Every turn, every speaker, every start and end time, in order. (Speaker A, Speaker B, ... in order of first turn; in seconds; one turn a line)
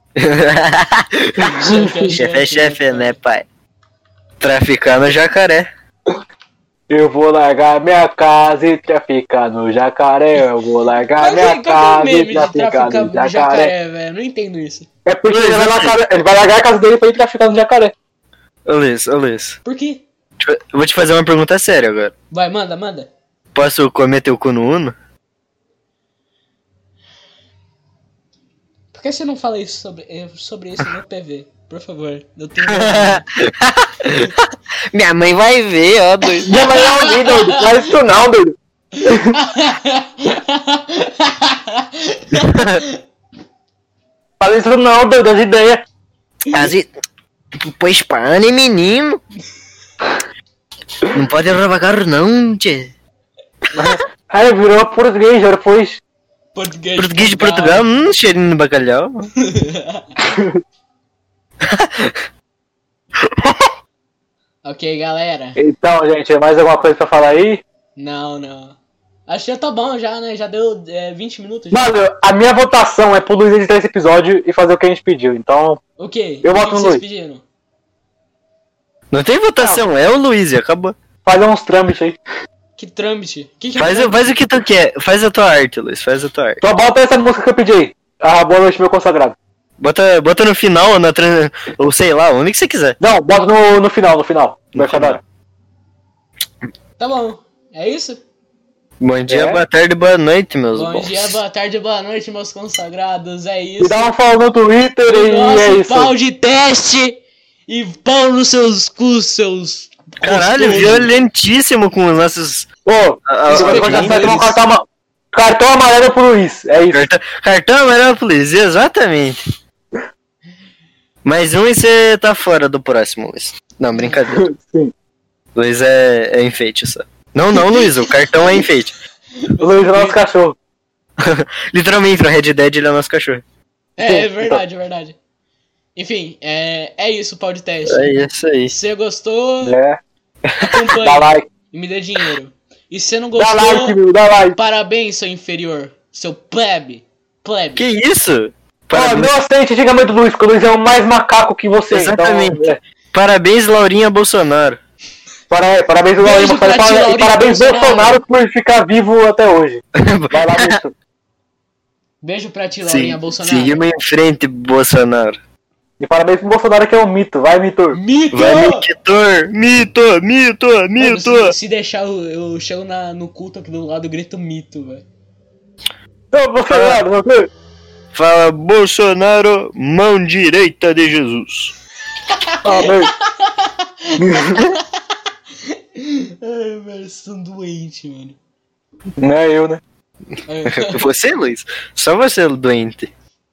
Speaker A: 0.2-3.4
Speaker B: 1.4-3.1
Speaker C: 1.6-2.1
Speaker A: 4.4-5.7
Speaker C: 6.9-13.7
Speaker B: 11.2-14.9
Speaker C: 15.0-17.9
Speaker A: 15.3-15.9
Speaker A: 18.7-19.6
Speaker B: 19.6-20.0
Speaker A: 20.4-22.1
Speaker B: 22.3-23.1
Speaker A: 23.5-24.9
Speaker B: 28.9-33.2
Speaker A: 32.6-36.6
Speaker B: 36.3-37.8
Speaker C: 36.5-39.4
Speaker B: 39.0-43.0
Speaker A: 42.4-42.8
Speaker C: 44.4-45.8
Speaker A: 46.5-46.9
Speaker A: 47.6-49.2
Speaker A: 51.0-52.9
Speaker C: 53.7-56.0
Speaker B: 56.5-58.0
Speaker A: 57.0-59.3
Speaker B: 59.4-60.1
Speaker C: 60.2-60.6
Speaker A: 61.6-62.2
Speaker A: 63.2-63.7
Speaker B: 64.6-65.6
Speaker C: 65.6-67.6
Speaker B: 68.0-71.8
Speaker C: 71.7-75.8
Speaker B: 76.0-77.4
Speaker C: 76.4-77.0
Speaker A: 79.1-80.9
Speaker C: 81.2-82.2
Speaker B: 82.8-84.3
Speaker A: 83.8-86.6
Speaker C: 86.6-89.3
Speaker A: 89.8-93.0
Speaker C: 93.0-95.2
Speaker A: 94.7-95.2
Speaker B: 97.0-98.2
Speaker A: 99.0-101.4
Speaker C: 99.3-99.6
Speaker B: 100.7-104.1
Speaker C: 103.8-106.1
Speaker B: 105.0-111.1
Speaker A: 110.2-112.7
Speaker C: 112.8-117.0
Speaker A: 113.3-114.3
Speaker B: 113.5-114.6
Speaker A: 116.9-119.4
Speaker A: 121.2-124.4
Speaker C: 124.3-124.9
Speaker A: 125.5-129.0
Speaker B: 129.4-130.2
Speaker C: 129.6-130.6
Speaker A: 131.2-133.4
Speaker B: 134.0-135.2
Speaker C: 134.0-134.6
Speaker B: 135.9-138.1
Speaker A: 137.9-138.8
Speaker B: 138.7-139.8
Speaker C: 139.6-140.0
Speaker A: 140.5-140.9
Speaker B: 140.6-144.0
Speaker C: 141.0-141.5
Speaker C: 143.4-144.6
Speaker B: 144.6-147.9
Speaker A: 147.8-149.3
Speaker C: 148.9-152.8
Speaker A: 151.9-154.8
Speaker C: 155.5-160.9
Speaker B: 156.2-158.2
Speaker A: 160.0-160.8
Speaker B: 162.2-163.8
Speaker A: 162.8-165.4
Speaker C: 166.0-168.5
Speaker B: 167.9-168.9
Speaker A: 168.3-171.5
Speaker B: 171.0-175.0
Speaker C: 176.3-177.5
Speaker A: 176.7-177.0
Speaker A: 178.1-181.7
Speaker B: 182.3-184.8
Speaker C: 182.6-183.1
Speaker C: 184.2-184.6
Speaker B: 185.7-188.4
Speaker C: 189.2-189.8
Speaker B: 190.5-191.0
Speaker A: 190.6-193.1